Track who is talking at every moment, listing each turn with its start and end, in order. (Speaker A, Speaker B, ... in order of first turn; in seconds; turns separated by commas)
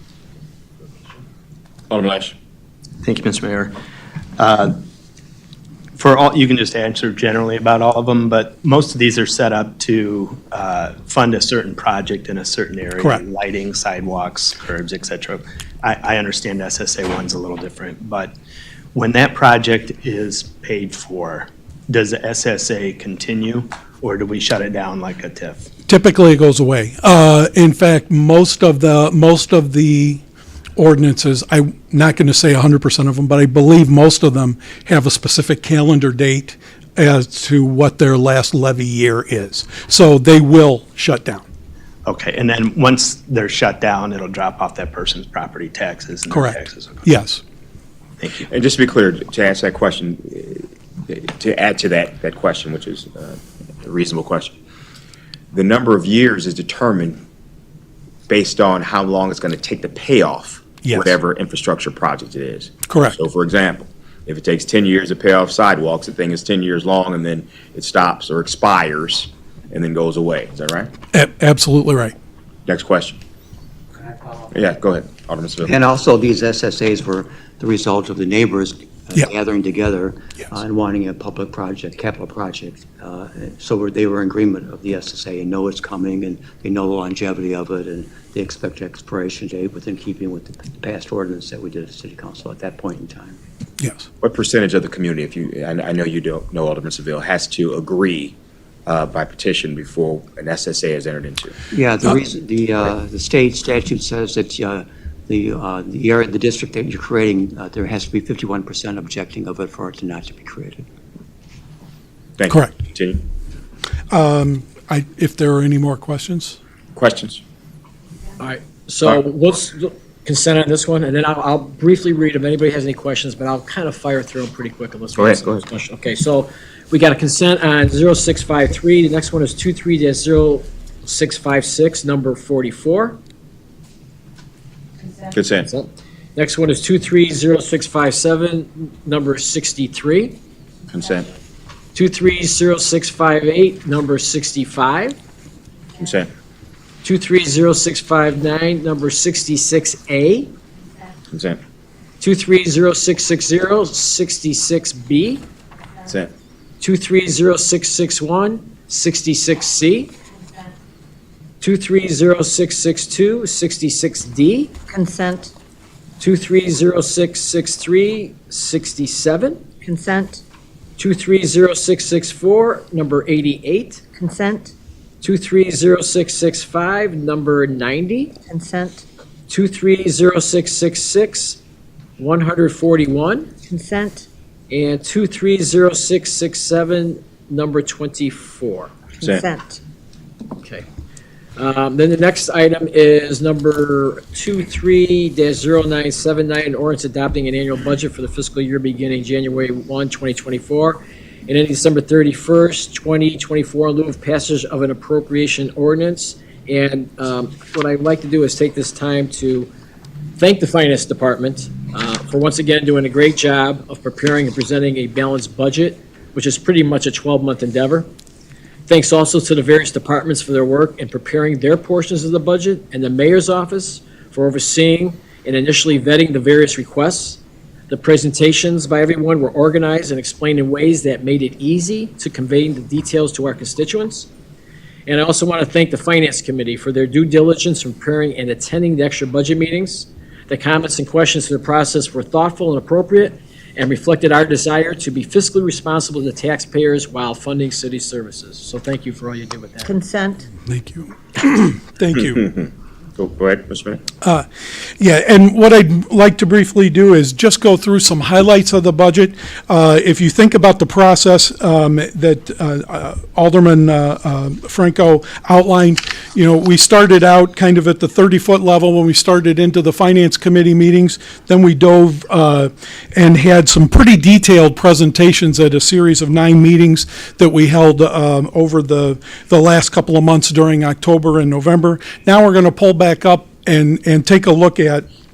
Speaker A: 1.9-2.3, Speaker B: 3.0-3.7, Speaker B: 4.4-4.8, Speaker B: 6.0-18.3, Speaker B: 18.9-25.7, Speaker C: 25.9-30.2, Speaker C: 30.8-41.4, Speaker B: 42.0-47.1, Speaker C: 46.3-47.4, Speaker B: 48.2-48.5, Speaker A: 48.5-54.5, Speaker A: 55.5-57.2, Speaker A: 58.3-70.9, Speaker C: 60.8-61.1, Speaker C: 62.9-63.2, Speaker C: 71.1-72.1, Speaker A: 72.7-73.2, Speaker A: 74.5-75.7, Speaker D: 75.6-93.4, Speaker C: 93.8-94.0, Speaker A: 94.2-101.5, Speaker D: 101.7-110.9, Speaker A: 112.4-113.2, Speaker C: 114.1-116.6, Speaker A: 116.9-117.4, Speaker E: 118.4-133.2, Speaker A: 125.2-125.6, Speaker A: 135.3-135.7, Speaker E: 135.7-140.4, Speaker A: 140.9-141.3, Speaker E: 141.9-145.2, Speaker A: 146.0-146.3, Speaker E: 147.0-150.5, Speaker A: 151.3-151.6, Speaker E: 152.2-155.5, Speaker A: 156.1-156.3, Speaker E: 156.8-160.2, Speaker E: 161.6-164.8, Speaker F: 164.9-165.5, Speaker E: 166.2-169.7, Speaker F: 169.8-170.4, Speaker E: 171.0-174.0, Speaker F: 174.2-174.7, Speaker E: 175.2-178.3, Speaker F: 178.4-179.0, Speaker E: 179.5-181.6, Speaker E: 182.2-183.5, Speaker F: 183.7-184.3, Speaker E: 184.7-189.1, Speaker F: 189.2-189.8, Speaker E: 190.5-190.8, Speaker E: 191.6-209.7, Speaker E: 210.4-218.1, Speaker E: 218.9-234.3, Speaker E: 235.1-249.9, Speaker F: 249.8-250.5, Speaker C: 250.7-252.5, Speaker A: 252.3-254.0, Speaker C: 255.0-285.1